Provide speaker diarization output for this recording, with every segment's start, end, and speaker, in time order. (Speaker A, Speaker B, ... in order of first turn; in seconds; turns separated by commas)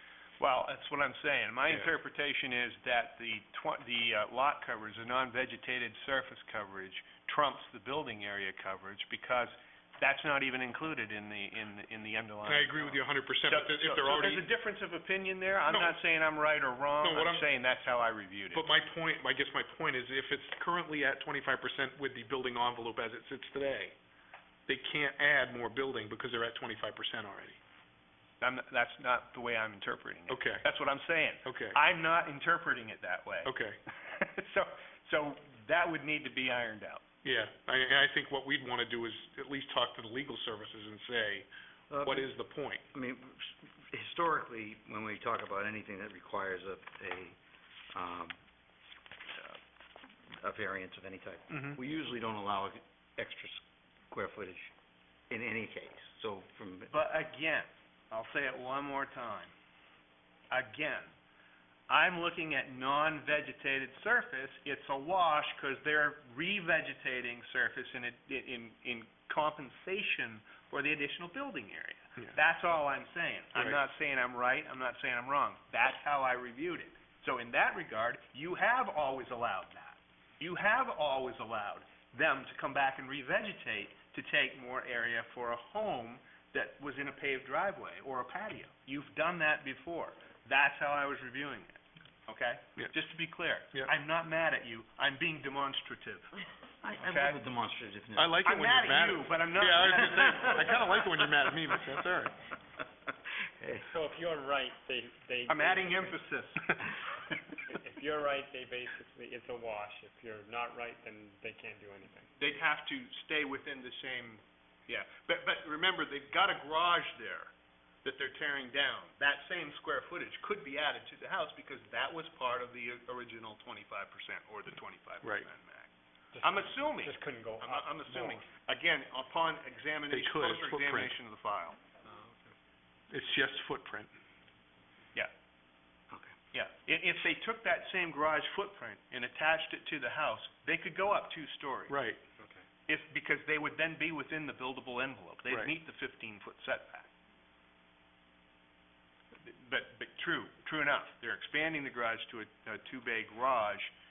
Speaker A: 0.4-18.7, Speaker B: 12.4-14.5, Speaker B: 17.0-17.5, Speaker B: 18.5-23.9, Speaker B: 24.6-27.6, Speaker A: 28.4-37.0, Speaker B: 30.3-30.6, Speaker B: 31.4-31.8, Speaker B: 33.4-33.8, Speaker B: 37.2-41.5, Speaker C: 41.9-42.3, Speaker B: 42.0-42.9, Speaker C: 42.9-47.4, Speaker C: 47.9-48.4, Speaker C: 49.3-49.6, Speaker C: 50.4-54.7, Speaker B: 51.5-51.8, Speaker C: 55.3-56.9, Speaker A: 56.9-59.5, Speaker A: 60.5-61.1, Speaker A: 61.9-96.4, Speaker C: 96.8-98.4, Speaker A: 96.9-97.4, Speaker B: 98.2-102.3, Speaker A: 98.4-100.9, Speaker C: 103.6-103.9, Speaker D: 103.8-106.2, Speaker A: 105.5-106.8, Speaker D: 107.7-112.3, Speaker A: 112.4-117.5, Speaker A: 118.0-125.9, Speaker D: 126.3-128.5, Speaker A: 126.4-131.8, Speaker B: 130.1-131.1, Speaker C: 132.1-132.4, Speaker B: 133.1-134.1, Speaker A: 136.5-142.0, Speaker B: 141.9-142.2, Speaker A: 142.9-147.1, Speaker A: 149.4-153.9